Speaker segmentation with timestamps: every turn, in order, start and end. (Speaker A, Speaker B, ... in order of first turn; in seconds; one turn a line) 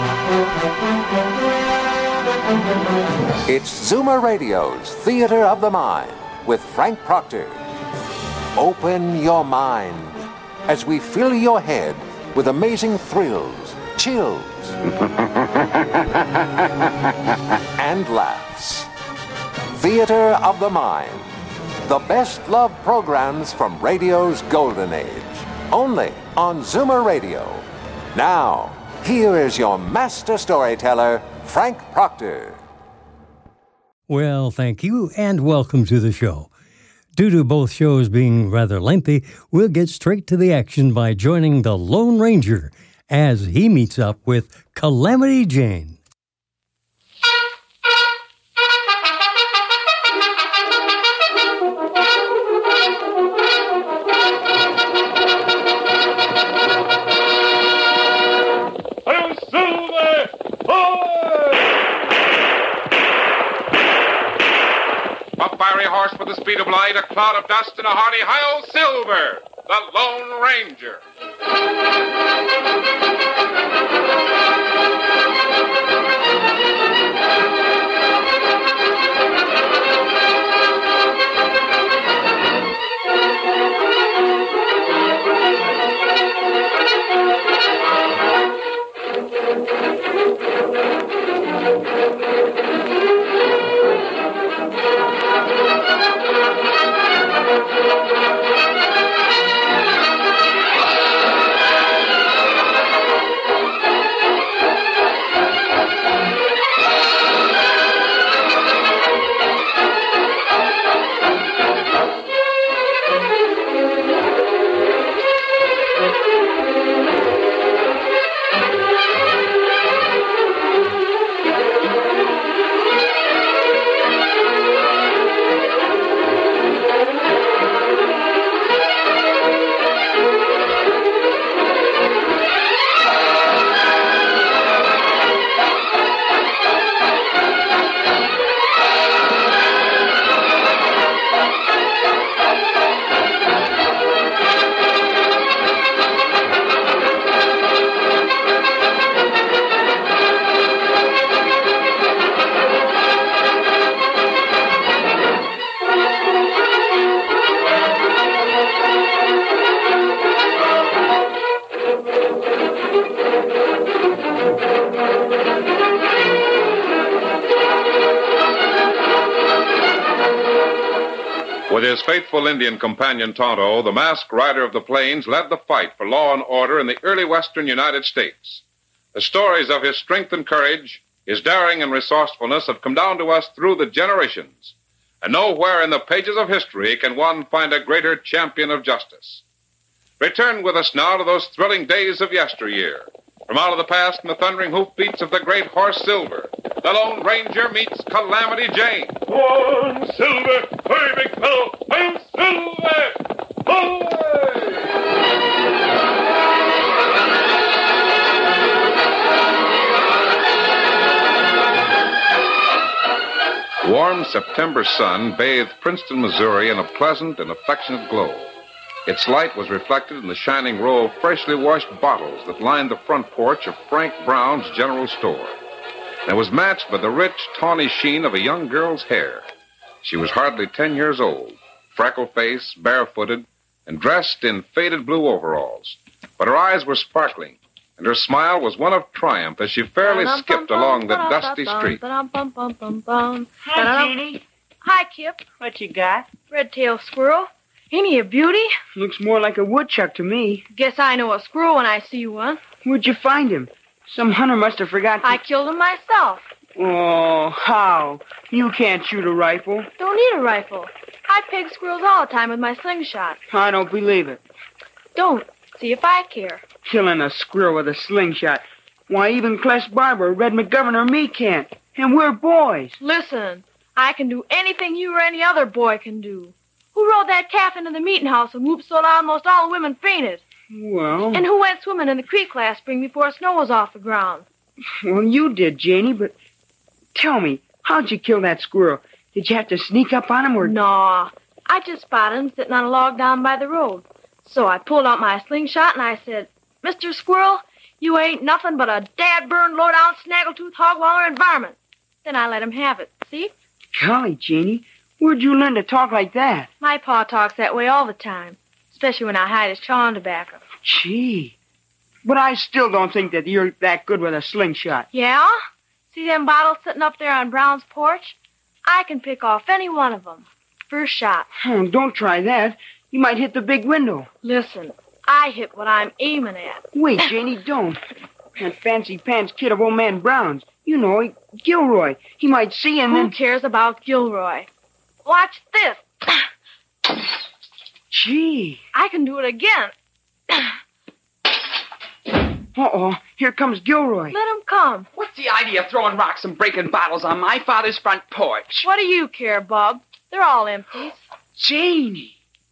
Speaker A: 3.5-7.6
Speaker A: 8.6-14.8
Speaker A: 17.8-18.9
Speaker A: 19.7-32.6
Speaker B: 34.1-36.5
Speaker B: 37.2-46.0
Speaker C: 65.4-71.0
Speaker C: 171.7-178.6
Speaker C: 179.1-189.4
Speaker C: 190.2-199.2
Speaker C: 213.8-218.5
Speaker C: 219.1-225.6
Speaker C: 226.2-229.5
Speaker C: 230.0-242.0
Speaker D: 240.0-244.2
Speaker E: 243.7-244.4
Speaker D: 244.8-245.5
Speaker E: 245.6-246.3
Speaker D: 246.5-248.7
Speaker E: 248.9-250.7
Speaker D: 250.7-252.6
Speaker E: 252.8-255.4
Speaker D: 255.2-256.5
Speaker E: 256.8-259.9
Speaker D: 260.0-263.4
Speaker E: 263.5-264.4
Speaker D: 265.1-266.6
Speaker E: 266.9-272.9
Speaker D: 273.0-280.4
Speaker E: 280.7-281.5
Speaker D: 281.3-284.4
Speaker E: 285.0-286.4
Speaker E: 287.1-290.7
Speaker D: 290.6-303.5
Speaker E: 303.9-306.7
Speaker D: 306.8-310.6
Speaker E: 310.8-311.6
Speaker E: 312.2-315.1
Speaker D: 315.1-315.5
Speaker D: 316.1-321.5
Speaker E: 321.6-324.3
Speaker D: 324.4-326.9
Speaker E: 326.9-328.0
Speaker E: 328.6-333.3
Speaker D: 333.1-334.7
Speaker D: 335.2-336.4
Speaker E: 338.1-338.8
Speaker D: 338.9-339.9
Speaker E: 342.8-344.4
Speaker D: 344.3-345.1
Speaker F: 345.1-348.8
Speaker D: 348.8-351.2
Speaker F: 351.6-352.3